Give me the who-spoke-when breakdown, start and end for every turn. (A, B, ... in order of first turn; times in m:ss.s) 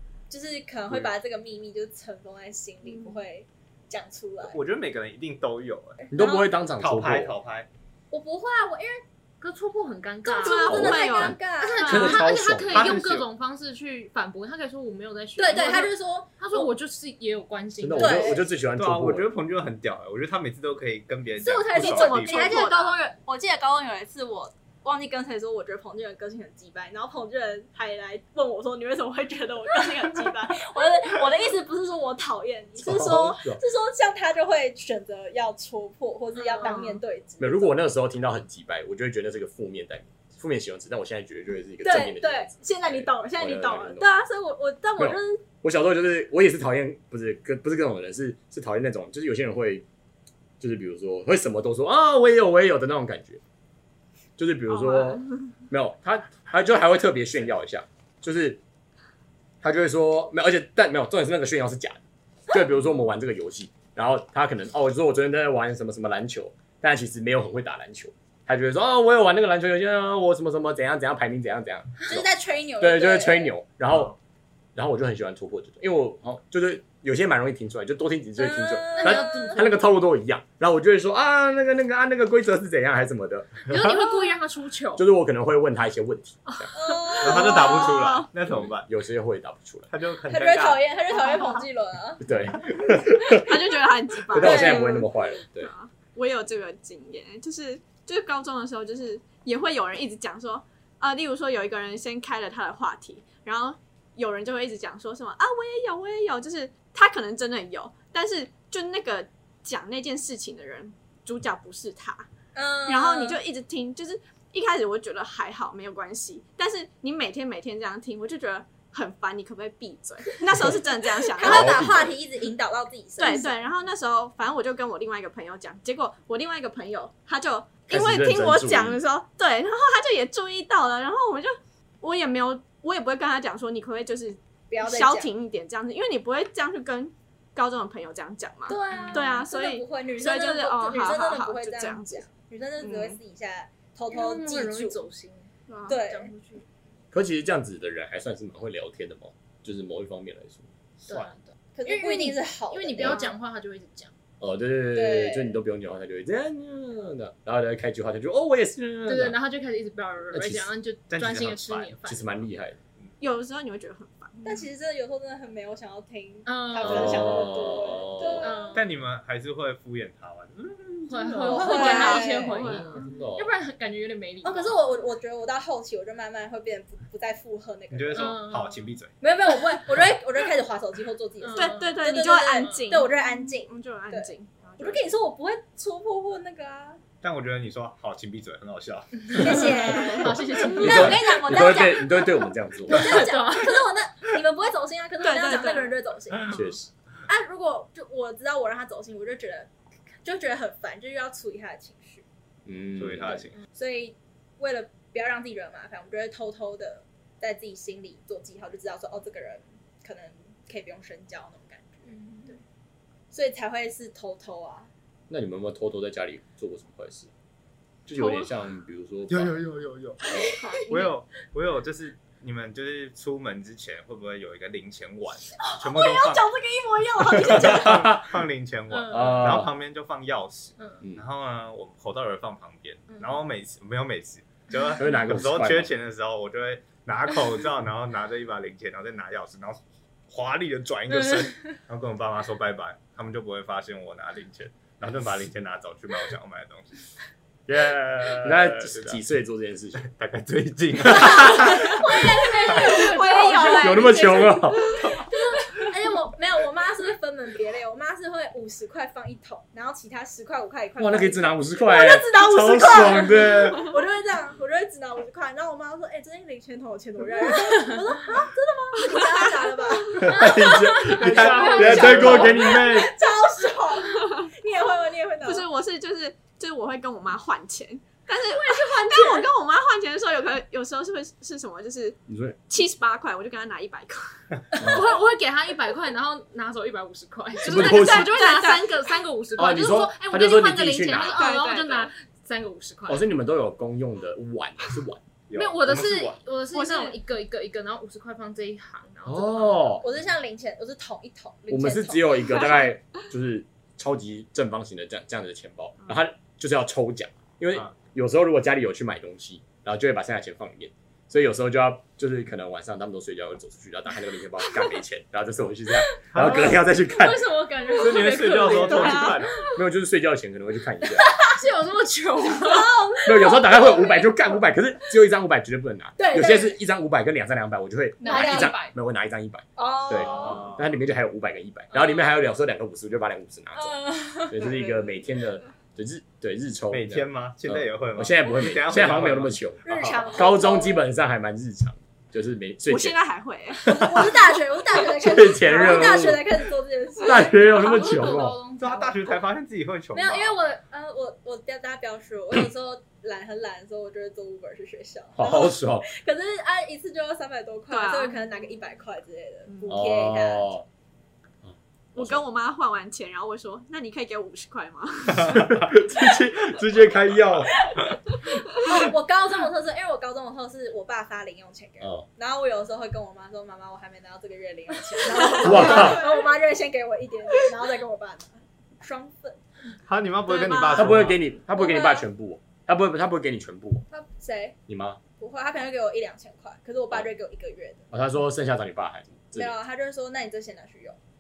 0:00.3-0:04.6 A
0:04.4-0:06.1 B
0:06.1-0:06.5 A
0:06.1-0:07.4 C
0:06.8-0:07.7 B
0:08.1-0:09.0 A
0:09.4-0:18.3 D
0:10.2-0:12.2 A
0:10.4-0:11.4 E
0:10.7-0:11.3 C
0:11.8-0:13.0 C
0:12.7-0:13.3 B
0:15.4-0:16.7 A
0:17.8-0:19.3 C
0:18.0-0:18.5 A
0:18.8-0:22.6 B
0:21.4-0:37.8 A
0:21.7-0:23.0 E
0:32.8-0:33.6 C
0:36.6-0:37.0 E
0:37.4-0:44.1 C
0:41.8-0:45.4 A
0:45.0-0:49.9 C
0:50.6-0:53.4 C
0:54.4-0:58.6 C
0:54.7-0:55.4 E
0:59.6-1:02.0 C
1:02.5-1:12.3 C
1:12.0-1:13.5 A
1:12.8-1:14.2 C
1:14.8-1:23.7 C
1:18.4-1:19.6 A
1:19.0-1:19.8 D
1:23.7-1:25.0 D
1:25.0-1:26.6 C
1:26.7-1:28.1 A
1:27.2-1:28.3 E
1:27.2-1:28.9 B
1:28.5-1:29.9 C
1:29.9-1:30.8 B
1:30.3-1:32.2 A
1:32.2-1:33.7 C
1:33.3-1:52.3 E
1:34.2-1:35.7 C
1:34.4-1:35.1 A
1:52.6-1:53.4 A
1:52.9-2:01.9 E
2:01.3-2:03.6 A
2:01.4-2:02.2 C
2:03.2-2:22.3 E
2:07.9-2:09.0 C
2:14.7-2:15.3 A
2:18.7-2:19.5 D
2:18.9-2:25.0 A
2:22.8-2:23.2 E
2:24.1-2:26.6 D
2:25.7-2:26.0 E
2:25.9-2:26.3 A
2:27.1-2:30.7 C
2:31.0-2:34.1 D
2:31.8-2:33.3 A
2:34.4-2:39.4 C
2:34.9-2:35.6 A
2:39.1-2:42.4 D
2:40.3-2:40.7 C
2:41.1-2:42.0 B
2:42.0-2:42.8 C
2:43.2-2:44.4 E
2:44.4-2:48.8 A
2:46.4-2:47.5 D
2:46.8-2:48.4 C
2:47.8-2:48.4 E
2:48.4-2:48.9 D
2:48.7-2:51.7 B
2:51.1-2:54.8 D
2:51.4-2:53.0 E
2:51.4-2:52.7 A
2:52.6-2:53.5 C
2:54.4-2:58.4 A
2:57.9-2:59.1 B
2:58.2-2:58.9 D
2:59.2-3:07.0 A
3:01.4-3:02.1 D
3:01.6-3:05.1 E
3:07.2-3:11.1 B
3:09.3-3:16.6 A
3:09.9-3:10.4 E
3:10.0-3:11.3 D
3:10.8-3:13.3 C
3:12.9-3:13.8 D
3:15.2-3:16.0 E
3:16.5-3:16.9 C
3:17.3-3:19.7 A
3:20.2-3:22.2 A
3:22.7-3:23.5 C
3:23.0-3:23.6 B
3:23.8-3:32.6 A
3:32.1-3:32.5 D
3:33.3-3:34.9 A
3:35.3-3:37.3 C
3:38.1-3:39.6 C
3:39.3-3:40.2 B
3:40.2-3:40.6 C
3:40.3-3:40.8 A
3:40.6-3:41.1 E
3:40.9-3:46.5 B
3:45.6-3:48.1 A
3:47.3-4:07.1 B
3:47.6-3:48.3 C
3:48.9-3:49.6 D
3:49.1-3:49.7 C
3:55.0-3:55.9 C
4:07.7-4:09.2 B
4:08.4-4:10.1 C
4:10.0-4:12.0 B
4:11.1-4:11.4 C
4:11.4-4:35.7 A
4:11.9-4:15.8 D
4:11.9-4:15.0 E
4:13.8-4:15.1 C
4:21.0-4:23.9 C
4:30.1-4:33.1 C
4:31.1-4:32.7 B
4:34.2-4:34.5 E
4:35.4-4:44.7 E
4:38.5-4:39.5 A
4:42.3-4:42.6 C
4:44.7-4:53.3 D
4:44.8-4:45.1 C
4:47.6-4:49.2 E
4:47.6-4:48.4 C
4:49.6-4:51.5 C
4:51.1-4:52.1 E
4:53.1-4:55.2 C
4:55.5-4:56.4 B
4:55.5-5:00.0 D
4:56.7-4:57.2 E
4:59.2-5:00.1 C
5:00.0-5:02.6 A
5:01.7-5:17.5 C
5:16.1-5:19.7 D
5:16.3-5:16.8 B
5:18.0-5:19.6 B
5:18.9-5:19.4 A
5:19.8-5:21.3 C
5:21.2-5:22.9 D
5:22.6-5:24.6 A
5:23.2-5:43.2 C
5:26.2-5:26.8 A
5:28.2-5:28.8 A
5:28.2-5:28.9 D
5:29.8-5:30.7 A
5:30.3-5:30.8 B
5:31.9-5:32.3 D
5:33.8-5:34.5 D
5:34.6-5:35.0 A
5:36.9-5:40.3 B
5:39.8-5:41.1 A
5:42.9-5:44.4 E
5:43.8-5:47.6 A
5:43.9-5:44.3 C
5:45.0-5:46.6 C
5:47.2-5:49.4 D
5:47.2-5:48.6 C
5:48.8-5:50.6 B
5:50.1-6:00.8 A
5:55.4-5:56.1 C
5:57.9-5:58.4 E
5:59.9-6:00.8 C
6:01.6-6:02.4 C
6:02.2-6:05.6 E
6:05.4-6:07.7 C
6:05.5-6:05.9 B
6:08.5-6:08.9 E
6:08.7-6:19.6 A
6:12.0-6:12.3 C
6:15.6-6:16.1 E
6:15.6-6:16.2 C
6:20.1-6:21.4 B
6:20.5-6:21.1 E
6:20.9-6:24.0 C
6:21.7-6:22.3 A
6:24.1-6:24.8 A
6:24.9-6:25.2 C
6:25.4-6:28.0 A
6:28.1-6:29.8 C
6:29.5-6:31.2 A